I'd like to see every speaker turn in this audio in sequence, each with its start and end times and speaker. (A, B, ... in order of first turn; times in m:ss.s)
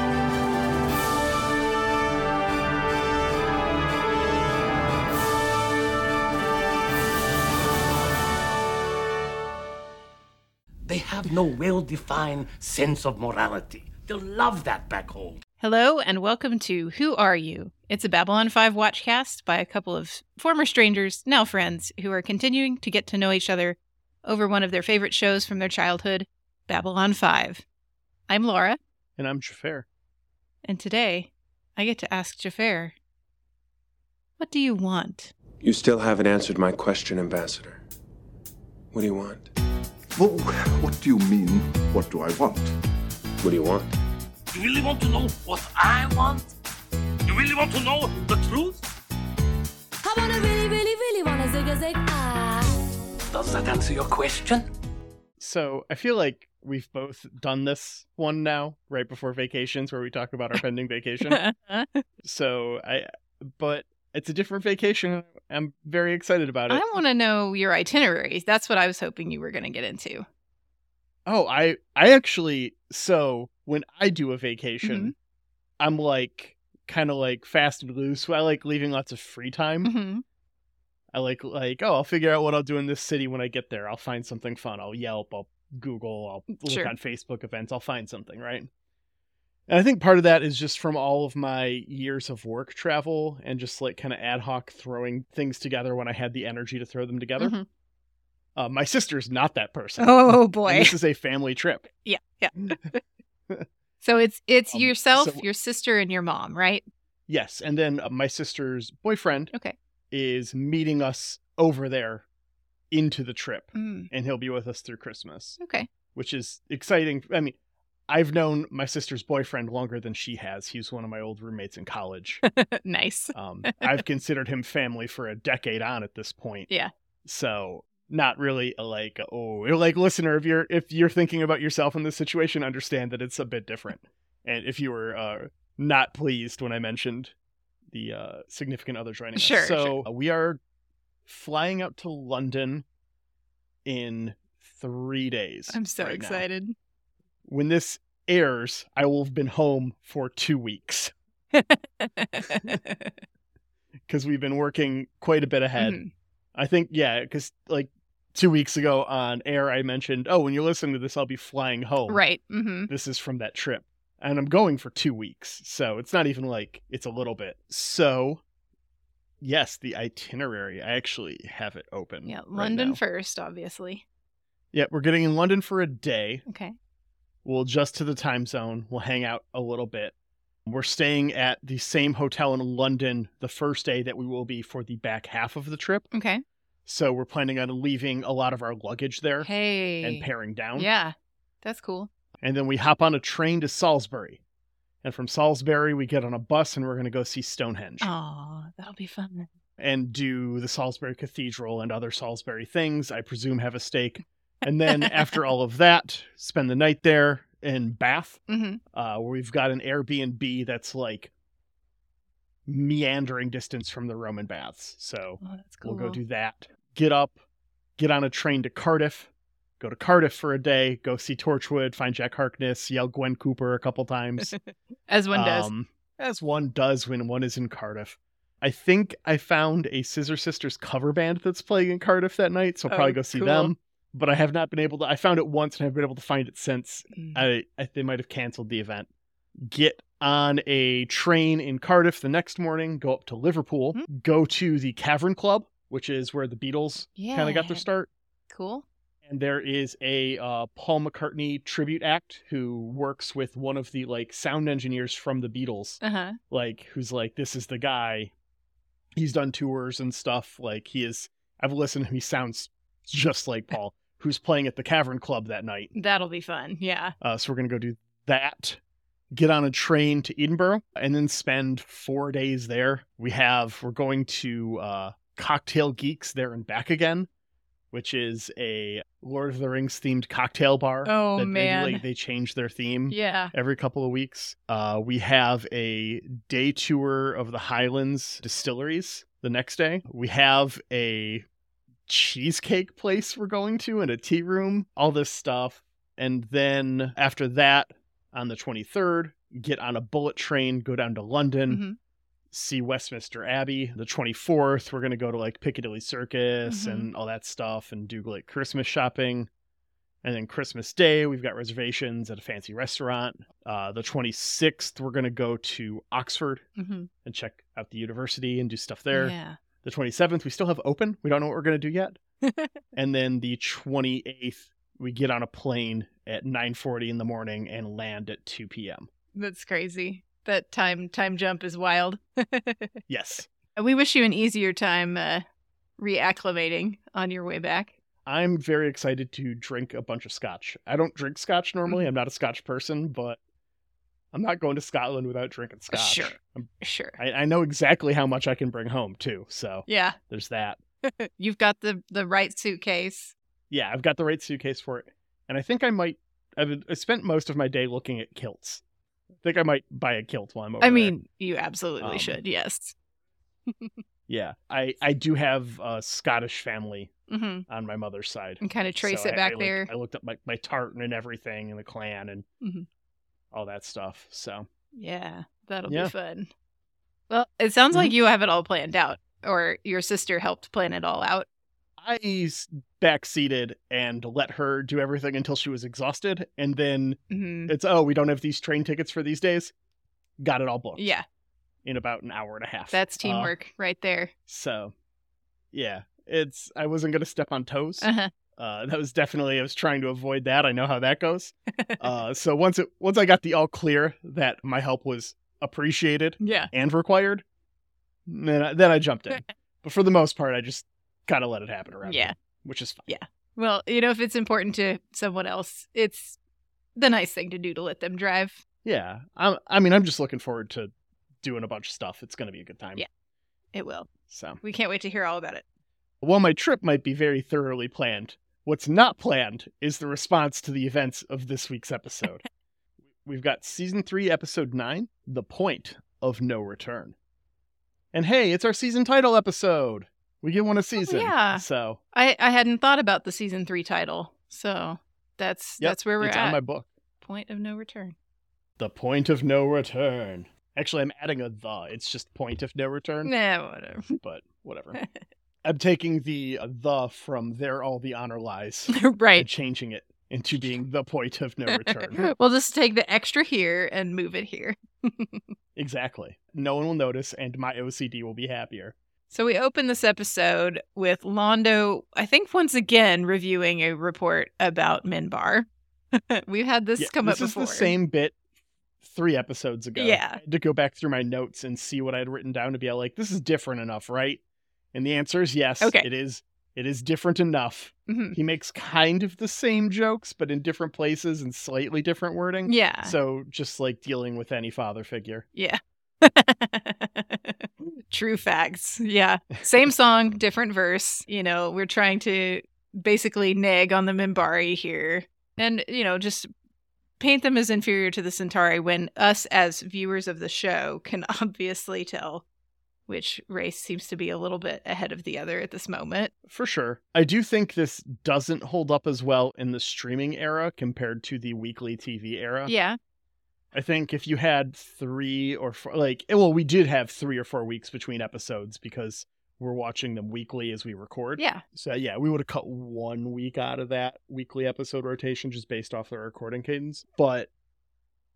0:10.8-0:15.4 A
0:15.6-0:27.6 B
0:28.3-0:28.8 B
0:29.2-0:29.8 C
0:30.6-0:32.9 B
0:34.4-0:35.3 B
0:35.6-0:37.8 D
0:38.9-0:39.5 D
0:40.1-0:42.7 E
0:43.4-0:43.9 D
0:44.5-0:46.5 A
0:47.2-0:48.8 A
0:50.0-0:52.8 F
0:53.3-0:54.7 A
0:55.4-1:01.4 C
1:01.2-1:02.0 B
1:02.2-1:06.8 C
1:06.7-1:10.2 B
1:11.2-1:15.1 C
1:14.8-1:15.1 B
1:15.8-1:19.9 C
1:19.8-1:20.2 B
1:21.1-1:28.7 C
1:26.5-1:26.9 B
1:29.7-1:37.5 C
1:37.4-1:37.6 B
1:38.6-1:41.9 C
1:40.0-1:40.9 B
1:42.0-1:43.0 B
1:44.0-1:46.8 B
1:44.7-1:45.4 C
1:47.3-1:49.5 C
1:50.1-1:52.2 C
1:52.9-1:55.6 C
1:53.7-1:54.1 B
1:55.6-1:55.9 B
1:56.1-1:57.5 C
1:58.1-2:02.4 C
2:02.5-2:04.0 B
2:03.3-2:06.7 C
2:07.2-2:17.3 C
2:17.9-2:20.6 C
2:19.3-2:20.0 B
2:21.2-2:22.8 C
2:23.8-2:26.4 C
2:25.7-2:26.7 B
2:27.4-2:31.1 C
2:31.5-2:33.1 B
2:34.1-2:36.0 C
2:35.8-2:36.1 B
2:36.5-2:42.2 C
2:42.1-2:42.9 B
2:42.9-2:48.4 C
2:49.4-2:53.0 C
2:52.2-2:54.0 B
2:54.7-2:56.4 C
2:56.5-2:56.8 B
2:57.4-3:00.1 C
3:00.6-3:06.0 C
3:06.1-3:06.4 B
3:06.8-3:09.5 C
3:09.4-3:12.1 B
3:10.0-3:10.9 C
3:12.4-3:14.4 C
3:15.0-3:18.1 C
3:18.0-3:19.5 B
3:19.8-3:28.4 C
3:24.9-3:25.4 B
3:28.5-3:28.8 B
3:28.9-3:31.3 C
3:32.6-3:37.4 C
3:35.4-3:36.2 B
3:38.0-3:44.5 C
3:44.4-3:45.7 B
3:45.3-3:59.1 C
3:52.9-3:53.7 B
3:57.1-3:57.4 B
3:59.6-4:08.1 C
4:07.2-4:07.8 B
4:08.5-4:08.8 B
4:09.2-4:16.0 C
4:16.0-4:16.4 B
4:16.5-4:18.3 C
4:19.2-4:25.9 C
4:25.9-4:27.1 B
4:27.2-4:28.8 C
4:29.3-4:37.3 C
4:37.9-4:51.4 C
4:41.0-4:42.0 B
4:43.1-4:43.5 B
4:52.1-5:01.8 C
5:01.7-5:02.0 B
5:02.5-5:09.5 C
5:06.7-5:07.1 B
5:10.2-5:16.6 C
5:16.8-5:17.1 B
5:17.2-5:22.2 C
5:19.1-5:19.6 B
5:22.4-5:22.7 B
5:22.9-5:29.1 C
5:29.3-5:32.9 B
5:33.1-5:33.5 C
5:33.8-5:35.4 B
5:36.0-5:37.9 B
5:38.2-5:43.4 C
5:44.3-5:50.8 C
5:45.9-5:47.2 B
5:49.9-5:50.2 B
5:51.0-5:53.3 B
5:53.7-5:58.8 C
5:59.4-6:01.1 C
6:00.8-6:02.9 B
6:02.0-6:02.4 C
6:03.7-6:03.9 B
6:04.3-6:07.1 C
6:07.3-6:07.6 B
6:07.7-6:12.4 C
6:08.6-6:09.9 B
6:13.5-6:14.7 C
6:14.9-6:16.5 B
6:15.9-6:16.1 C
6:17.3-6:21.4 B
6:22.0-6:29.7 C
6:27.3-6:27.7 B
6:30.4-6:31.1 C
6:31.0-6:31.2 B
6:31.8-6:33.5 C
6:32.9-6:34.3 B
6:34.5-6:34.9 C
6:35.7-6:47.4 C
6:38.0-6:38.3 B
6:41.7-6:42.0 B
6:46.4-6:46.7 B
6:48.3-6:53.0 C
6:52.0-6:52.3 B
6:53.1-6:56.4 B
6:57.0-6:58.6 B
6:58.8-7:03.0 C
7:03.7-7:04.1 B
7:04.3-7:04.6 C
7:04.6-7:05.6 B
7:06.2-7:12.4 C
7:13.2-7:17.1 C
7:18.1-7:22.0 C
7:21.0-7:26.6 B
7:25.8-7:26.9 C
7:27.2-7:28.1 B
7:28.8-7:33.3 C
7:33.2-7:34.2 B
7:34.2-7:35.0 C
7:35.6-7:42.3 C
7:38.9-7:39.5 B
7:41.7-7:45.4 B
7:45.8-7:48.9 C
7:49.3-7:57.9 B
7:57.0-7:58.4 C
7:59.0-8:04.4 C
8:00.0-8:00.4 B
8:04.9-8:15.4 C
8:08.1-8:08.4 B
8:12.6-8:13.2 B
8:15.6-8:26.5 B
8:27.2-8:32.4 B
8:33.1-8:36.3 B
8:36.5-8:42.7 C
8:42.6-8:43.0 B
8:43.7-8:57.5 C
8:51.4-8:51.6 B